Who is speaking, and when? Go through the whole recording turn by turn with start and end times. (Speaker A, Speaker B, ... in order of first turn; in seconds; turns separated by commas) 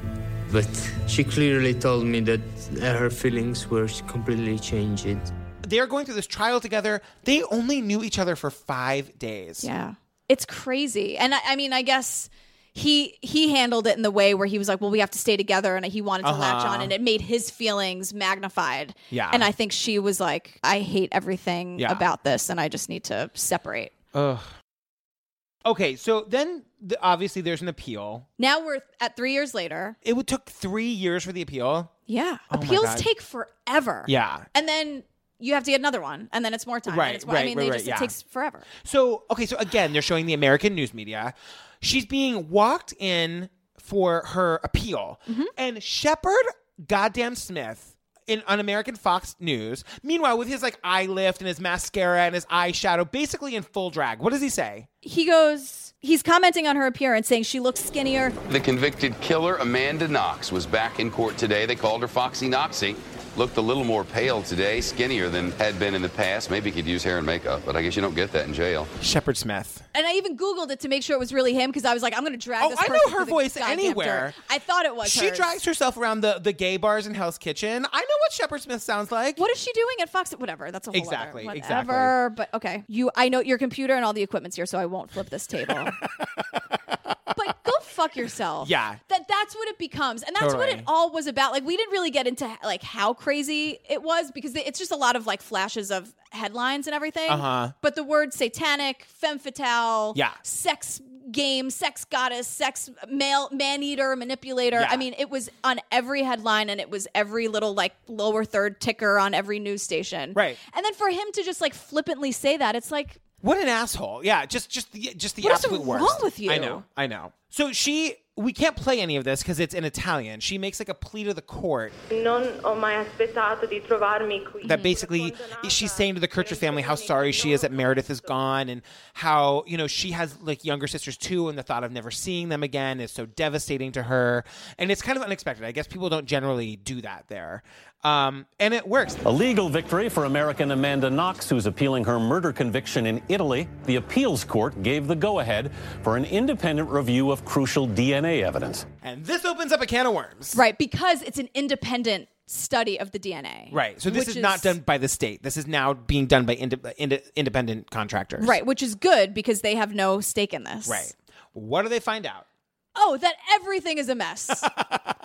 Speaker A: 0.5-5.3, Speaker B: 5.6-9.7, Speaker C: 9.6-23.9, Speaker B: 16.2-16.9, Speaker B: 19.1-19.5, Speaker B: 21.8-22.0, Speaker B: 24.1-24.5, Speaker B: 25.6-28.3, Speaker C: 28.4-30.0, Speaker B: 30.0-31.9, Speaker C: 32.1-38.7, Speaker B: 32.5-33.1, Speaker B: 34.0-34.5, Speaker B: 36.9-38.1, Speaker B: 38.8-54.9, Speaker C: 55.0-58.4, Speaker D: 58.5-68.9, Speaker B: 69.0-69.8, Speaker C: 69.9-75.5, Speaker B: 72.6-74.3, Speaker B: 75.0-79.4, Speaker C: 79.4-86.0, Speaker B: 80.9-82.1, Speaker C: 87.3-113.2, Speaker B: 88.6-89.0, Speaker B: 90.4-90.8, Speaker B: 97.3-97.7, Speaker B: 104.7-105.0, Speaker B: 110.3-110.6, Speaker B: 113.4-121.9, Speaker C: 115.4-116.8, Speaker E: 122.1-128.3, Speaker B: 124.6-139.2, Speaker C: 124.7-124.9, Speaker F: 139.2-148.8, Speaker B: 149.0-150.6, Speaker C: 150.5-154.8, Speaker B: 153.7-158.6, Speaker C: 158.4-161.1, Speaker B: 160.8-162.4, Speaker C: 162.9-164.7